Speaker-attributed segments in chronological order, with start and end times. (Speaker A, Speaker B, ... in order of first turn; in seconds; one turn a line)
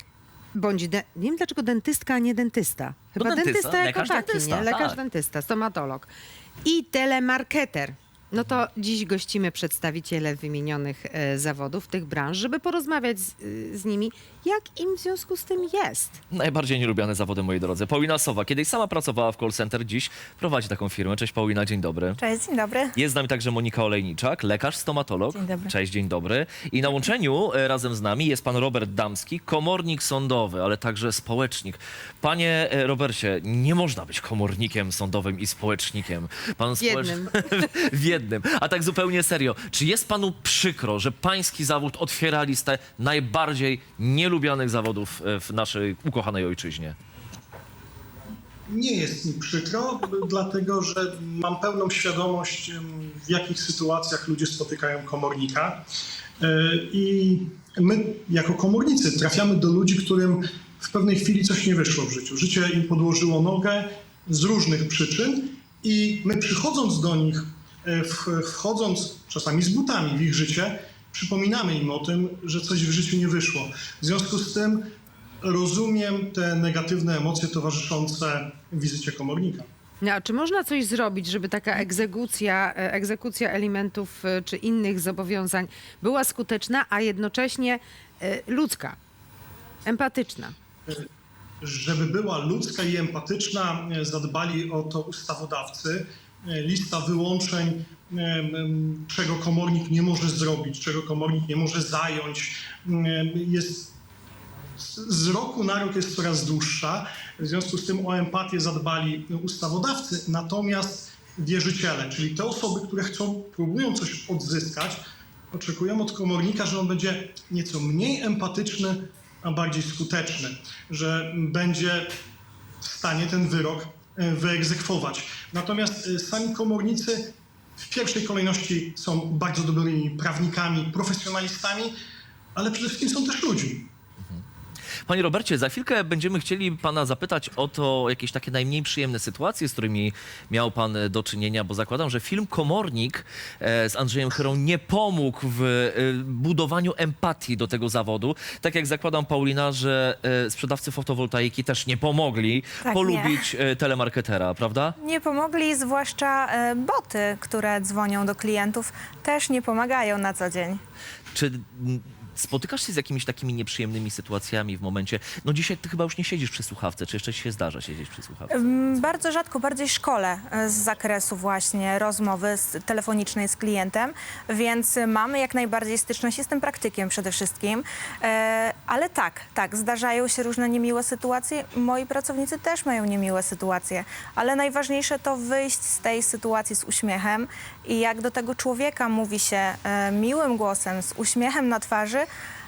Speaker A: 0.5-6.1
Speaker B: 3.1-5.0
Speaker A: 6.6-16.2
Speaker B: 16.3-22.2
Speaker C: 22.2-22.9
Speaker B: 22.9-47.0
Speaker C: 25.3-25.7
Speaker A: 36.8-37.5
Speaker D: 48.7-55.8
Speaker D: 56.4-74.8
Speaker D: 75.4-79.7
Speaker A: 80.0-89.0
Speaker A: 89.8-90.5
Speaker D: 91.6-103.9
Speaker D: 104.8-115.0
Speaker D: 115.5-122.1
Speaker D: 122.8-127.3
Speaker D: 127.9-131.9
Speaker D: 132.5-133.9
Speaker B: 135.1-154.9
Speaker C: 152.8-153.4
Speaker C: 155.0-160.8
Speaker B: 161.3-168.7
Speaker C: 168.5-192.2